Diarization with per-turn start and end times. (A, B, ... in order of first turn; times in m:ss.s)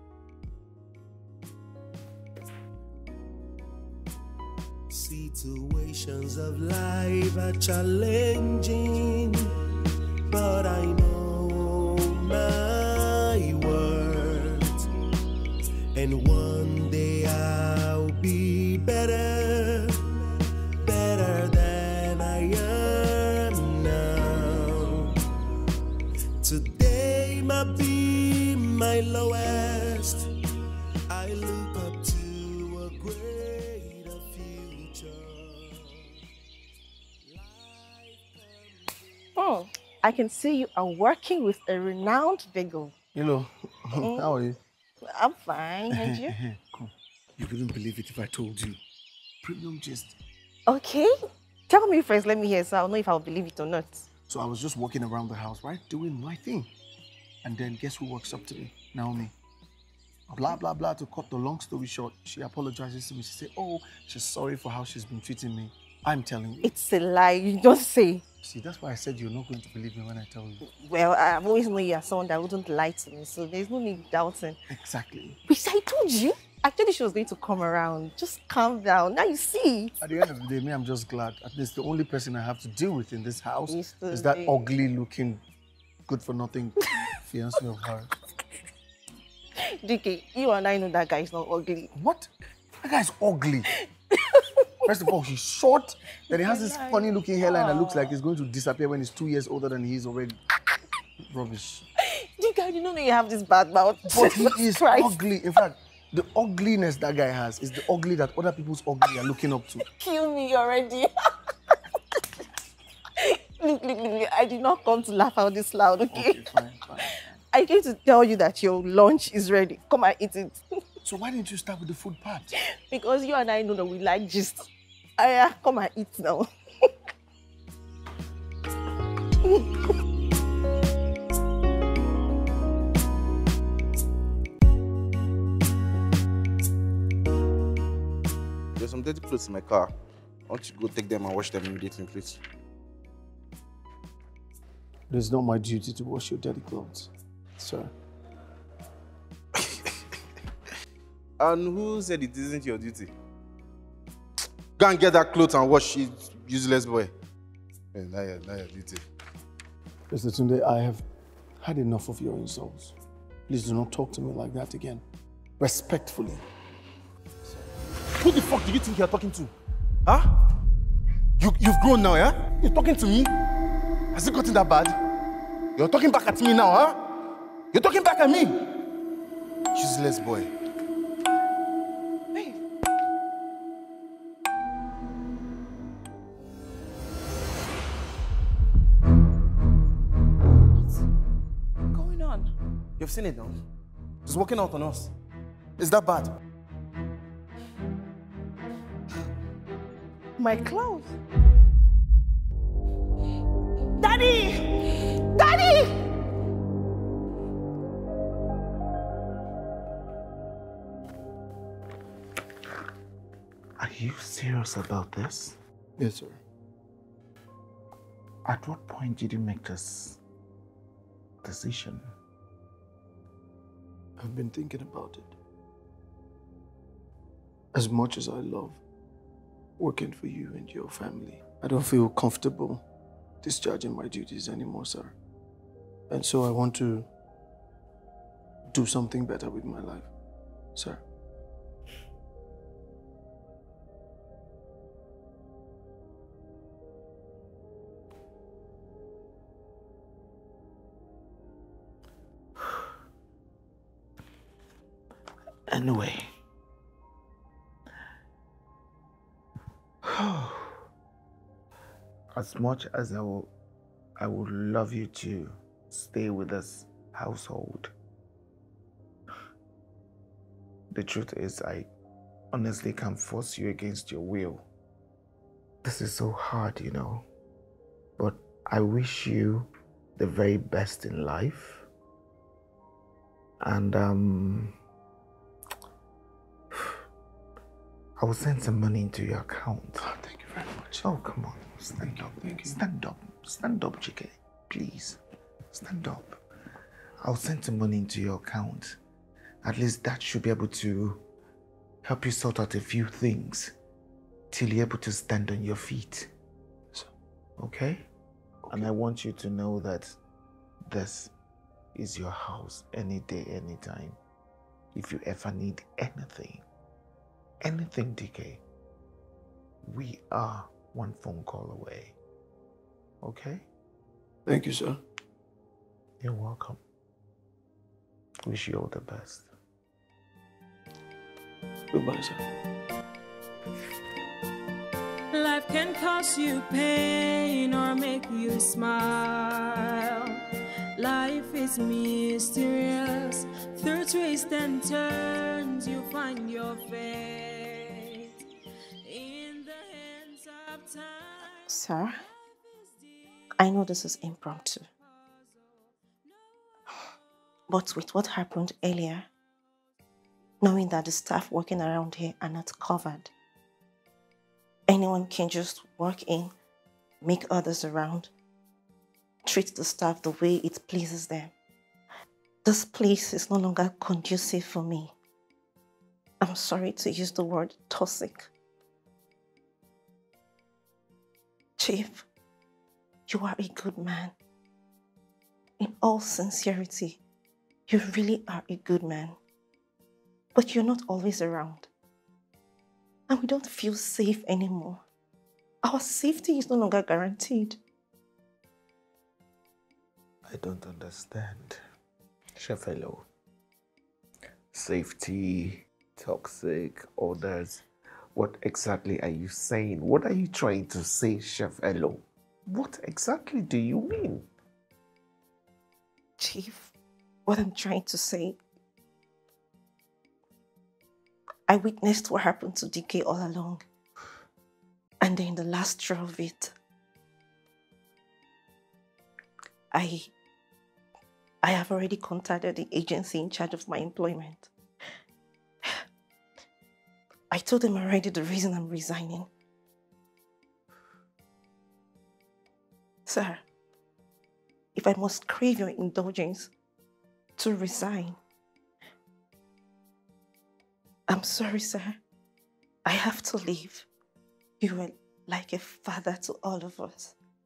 0:04.9-0:09.5 A
0:10.3-0:14.8 A
0:15.9-0:20.0 A
0:20.8-0:25.2 A
0:26.4-0:30.3 A
0:31.1-0:36.1 A
0:37.2-0:39.3 A
0:39.4-0:42.9 B
0:43.1-0:44.6 C
0:44.0-0:44.3 B
0:45.0-0:46.4 B
0:45.9-0:48.8 C
0:49.4-0:50.2 C
0:50.7-0:51.2 B
0:51.7-0:54.1 B
0:54.3-0:56.7 C
0:57.4-0:59.3 C
1:00.3-1:06.7 C
1:06.6-1:08.2 B
1:08.4-1:10.6 C
1:10.6-1:14.6 B
1:14.7-1:15.4 C
1:15.5-1:20.0 B
1:20.0-1:25.4 C
1:23.7-1:24.6 B
1:26.1-1:28.1 C
1:29.6-1:31.9 B
1:32.0-1:32.3 C
1:32.8-1:33.7 C
1:34.1-1:34.6 B
1:34.9-1:40.4 C
1:36.3-1:38.2 B
1:41.2-1:41.8 C
1:42.0-1:45.2 B
1:44.1-1:49.8 C
1:49.9-1:51.1 B
1:53.2-1:56.4 B
1:56.1-1:57.1 C
1:57.5-2:00.6 B
2:01.0-2:02.5 C
2:02.6-2:06.9 B
2:09.4-2:09.7 B
2:18.8-2:19.9 D
2:20.5-2:22.4 D
2:25.1-2:27.9 C
2:31.4-2:33.1 D
2:34.8-2:37.1 D
2:38.0-2:39.0 D
2:40.1-2:41.0 C
2:41.6-2:42.9 C
2:43.5-2:45.0 C
2:45.6-2:46.4 C
2:48.2-2:49.5 D
2:50.1-2:50.4 D
2:51.4-2:53.3 D
2:54.1-2:55.0 D
2:55.8-2:57.0 D
2:57.7-2:58.6 D
2:59.7-3:00.5 D
3:02.3-3:02.6 E
3:11.9-3:12.5 E
3:13.0-3:13.6 D
3:14.3-3:15.1 D
3:15.8-3:16.3 D
3:20.4-3:21.2 E
3:24.0-3:25.9 E
3:33.8-3:35.6 F
3:36.0-3:36.4 C
3:38.5-3:40.2 F
3:41.4-3:42.1 F
3:44.2-3:45.4 C
3:47.7-3:48.8 C
3:49.8-3:52.8 C
3:53.4-3:55.2 C
3:56.1-3:57.1 C
3:58.7-4:00.1 C
4:00.8-4:01.0 C
4:15.7-4:16.3 F
4:20.0-4:20.8 F
4:22.3-4:23.5 F
4:24.2-4:27.9 F
4:30.9-4:31.9 F
4:32.5-4:34.6 F
4:35.8-4:37.3 F
4:38.2-4:41.9 F
4:43.6-4:44.8 F
4:48.2-4:50.1 F
4:50.0-4:51.0 C
4:50.9-4:55.2 F
4:52.1-4:52.8 C
4:55.7-4:56.4 F
4:57.2-4:59.0 F
4:59.6-5:01.2 F
5:02.0-5:03.7 F
5:04.5-5:06.3 F
5:07.6-5:08.1 F
5:08.7-5:10.2 F
5:10.9-5:11.3 F
5:11.9-5:14.2 F
5:14.9-5:16.6 F
5:17.6-5:18.6 F
5:19.8-5:22.2 F
5:23.2-5:23.7 F
5:24.5-5:25.0 C
5:26.2-5:26.8 F
5:28.4-5:29.5 F
5:31.9-5:32.4 C
5:35.3-5:40.4 G
5:41.0-5:48.4 G
5:49.0-5:51.5 G
5:51.7-5:52.2 B
5:53.6-5:54.9 B
5:57.7-5:59.3 B
6:00.6-6:03.3 B
6:04.9-6:06.5 B
6:07.2-6:08.3 B
6:09.4-6:11.5 B
6:12.6-6:15.1 B
6:16.4-6:18.5 B
6:21.8-6:22.2 B
6:23.3-6:24.3 B
6:25.8-6:27.2 B
6:27.9-6:29.4 B
6:30.6-6:31.9 B
6:33.3-6:35.0 B
6:35.8-6:37.8 B
6:40.4-6:41.8 F
6:42.6-6:43.3 F
6:44.7-6:54.5 F
6:56.4-6:56.9 B
6:57.5-6:58.6 B
7:01.7-7:03.8 B
7:05.2-7:06.7 B
7:09.9-7:10.3 B
7:11.6-7:14.7 B
7:17.5-7:19.5 B
7:23.3-7:23.6 B
7:25.0-7:26.7 B
7:27.6-7:28.4 B
7:31.3-7:32.2 B
7:33.0-7:34.1 B
7:34.8-7:37.4 B